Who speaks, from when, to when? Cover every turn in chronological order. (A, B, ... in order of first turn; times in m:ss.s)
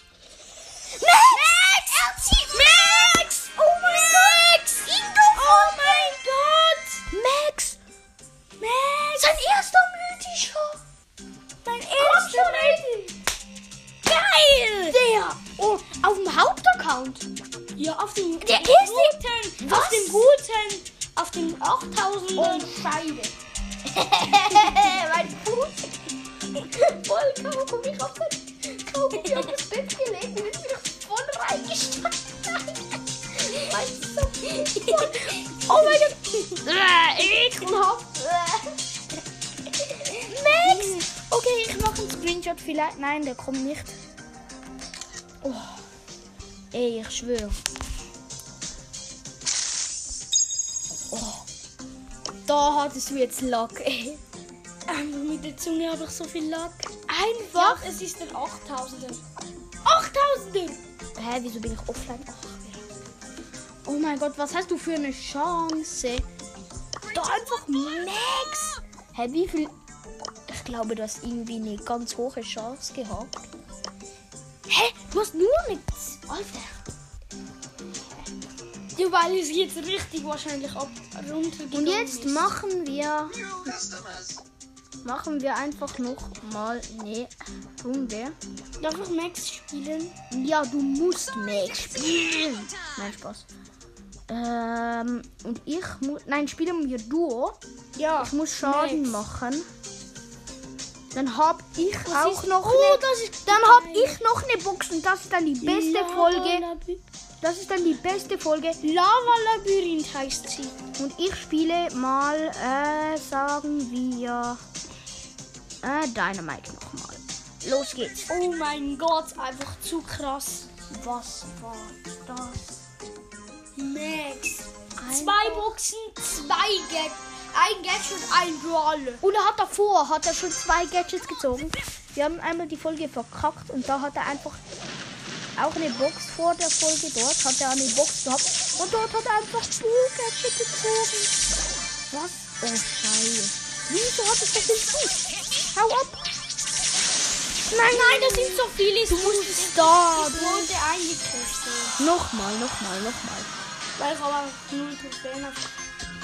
0:00.9-0:06.2 A
0:01.2-0:02.2 B
0:03.8-0:04.1 B
0:05.3-0:07.0 B
0:07.1-0:07.8 A
0:08.6-0:09.4 B
0:09.1-0:10.8 A
0:11.6-0:13.1 B
0:12.0-0:13.0 A
0:14.0-0:15.0 B
0:14.8-0:17.3 A
0:17.8-0:22.7 B
0:18.4-0:20.2 A
0:22.4-0:23.4 A
0:23.9-0:25.9 A
0:26.6-0:32.8 A
0:33.3-0:38.7 A
0:34.8-0:36.6 B
0:37.2-0:38.0 B
0:40.0-0:41.0 B
0:40.2-0:44.0 A
0:45.4-0:45.7 A
0:46.7-0:47.6 A
0:51.1-0:51.4 A
0:52.4-0:54.2 A
0:54.9-0:56.9 B
0:57.1-0:57.9 A
0:57.5-0:59.2 B
0:59.8-1:00.8 B
1:01.1-1:02.9 A
1:03.8-1:06.2 A
1:07.1-1:09.7 A
1:10.5-1:13.3 A
1:14.7-1:16.7 A
1:18.9-1:22.5 B
1:21.7-1:24.0 A
1:25.0-1:28.4 A
1:28.8-1:30.2 B
1:30.3-1:33.5 A
1:34.3-1:37.6 A
1:38.0-1:39.1 B
1:38.2-1:39.7 A
1:41.1-1:46.6 A
1:42.0-1:44.2 B
1:45.6-1:47.0 B
1:47.4-1:48.8 A
1:48.8-1:50.8 B
1:51.0-1:54.6 A
1:55.8-1:58.3 A
1:58.3-2:00.7 B
2:00.9-2:02.8 A
2:03.8-2:09.2 B
2:05.0-2:05.7 A
2:09.2-2:14.6 A
2:15.6-2:21.3 A
2:22.1-2:26.2 A
2:27.7-2:30.7 A
2:27.7-2:32.0 B
2:32.0-2:33.5 A
2:34.0-2:35.7 B